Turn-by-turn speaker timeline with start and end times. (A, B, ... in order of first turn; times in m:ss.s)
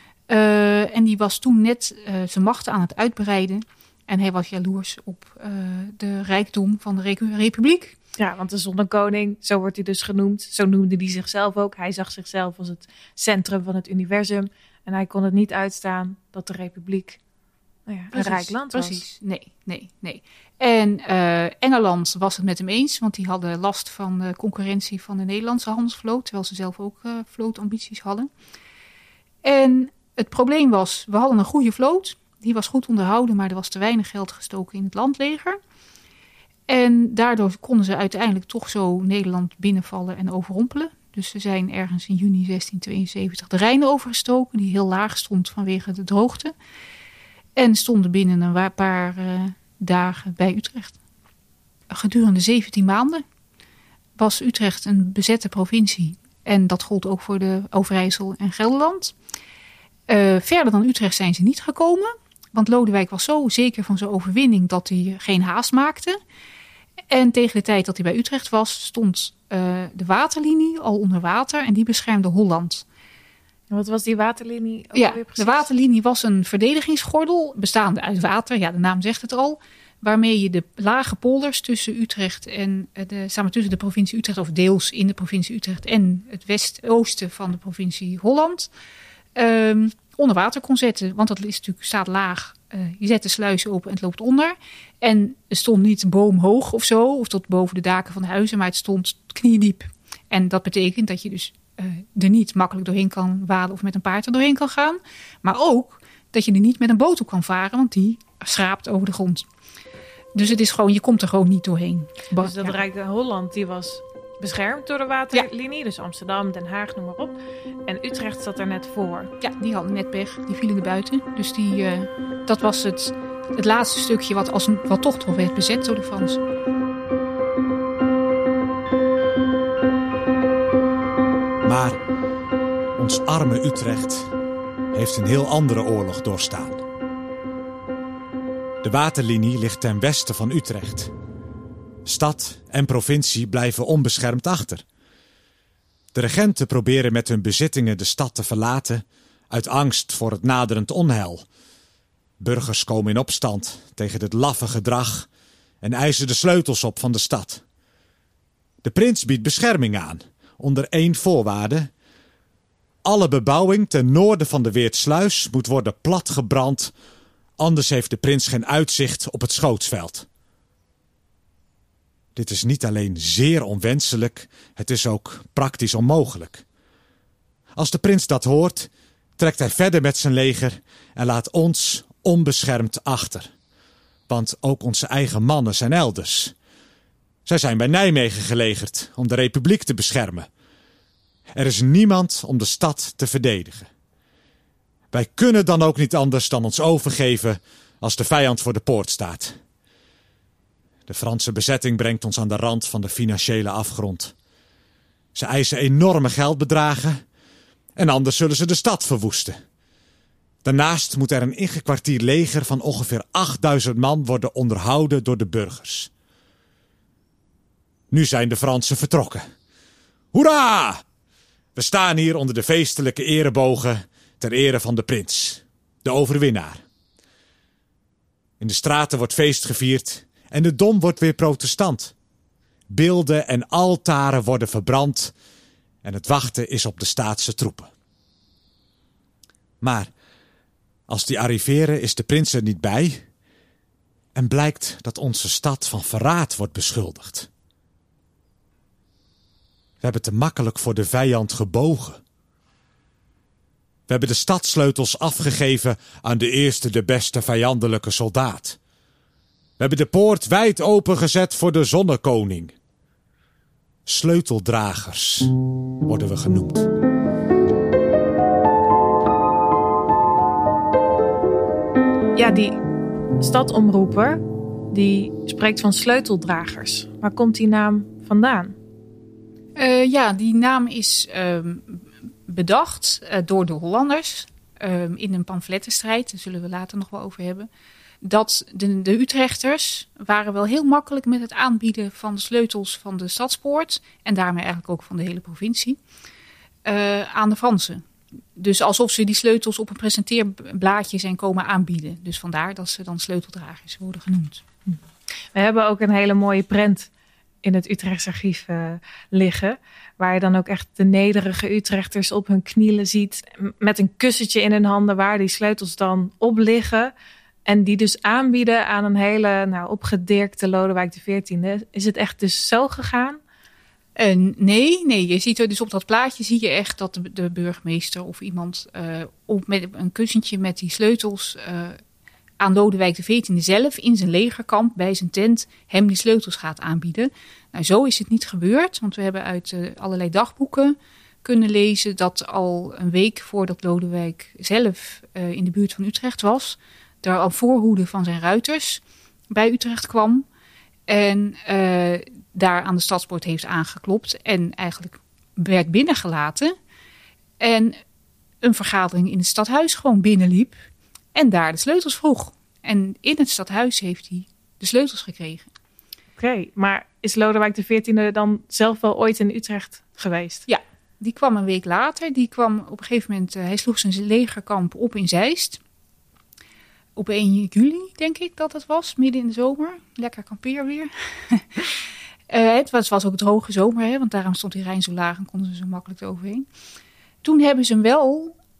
0:00.3-0:07.9 A
0:08.2-0:17.2 B
0:17.9-0:19.0 B
0:18.1-0:28.3 A
0:29.4-0:35.6 A
0:36.7-0:46.5 A
0:47.6-0:51.0 A
0:51.9-0:53.2 A
0:54.2-0:59.1 A
1:00.1-1:06.2 A
1:07.1-1:12.8 A
1:13.7-1:15.7 B
1:14.9-1:28.7 A
1:29.4-1:49.4 A
1:50.3-1:52.8 A
1:52.4-1:59.3 B
1:59.4-2:06.4 A
2:11.6-2:12.0 C
2:13.0-2:14.3 C
2:14.9-2:16.8 C
2:18.8-2:21.1 C
2:22.0-2:24.8 C
2:26.1-2:31.4 C
2:32.4-2:35.3 C
2:35.8-2:37.6 C
2:38.8-2:41.9 C
2:43.0-2:46.9 C
2:47.6-2:50.3 C
2:52.3-2:56.6 C
2:57.8-3:03.5 C
3:04.3-3:06.5 C
3:07.4-3:10.5 C
3:11.5-3:13.9 C
3:15.1-3:19.6 C
3:21.1-3:24.3 C
3:25.3-3:27.2 C
3:28.0-3:29.6 C
3:30.6-3:36.1 C
3:38.1-3:39.4 C
3:40.3-3:41.0 C
3:41.7-3:46.8 C
3:48.6-3:52.1 C
3:52.9-3:55.3 C
3:56.0-3:57.9 C
3:59.8-4:00.1 C
4:01.1-4:03.2 C
4:04.3-4:07.5 C
4:10.0-4:12.2 C
4:14.1-4:18.8 C
4:19.8-4:22.7 C
4:24.0-4:25.5 C
4:26.0-4:26.9 C
4:32.3-4:32.8 B
4:33.4-4:38.8 B
4:39.8-4:47.7 A
4:48.2-4:56.0 A
4:56.8-4:58.0 A
4:58.6-5:04.6 A
5:05.5-5:07.1 B
5:07.6-5:17.1 B
5:17.6-5:23.4 B
5:24.2-5:32.0 A
5:32.6-5:50.4 A
5:51.1-5:56.7 A
5:57.6-5:58.0 A
5:58.6-6:00.8 A
6:01.3-6:05.7 A
6:06.4-6:10.6 B
6:10.7-6:15.8 A
6:17.2-6:21.8 A
6:22.5-6:26.6 A
6:27.4-6:28.5 A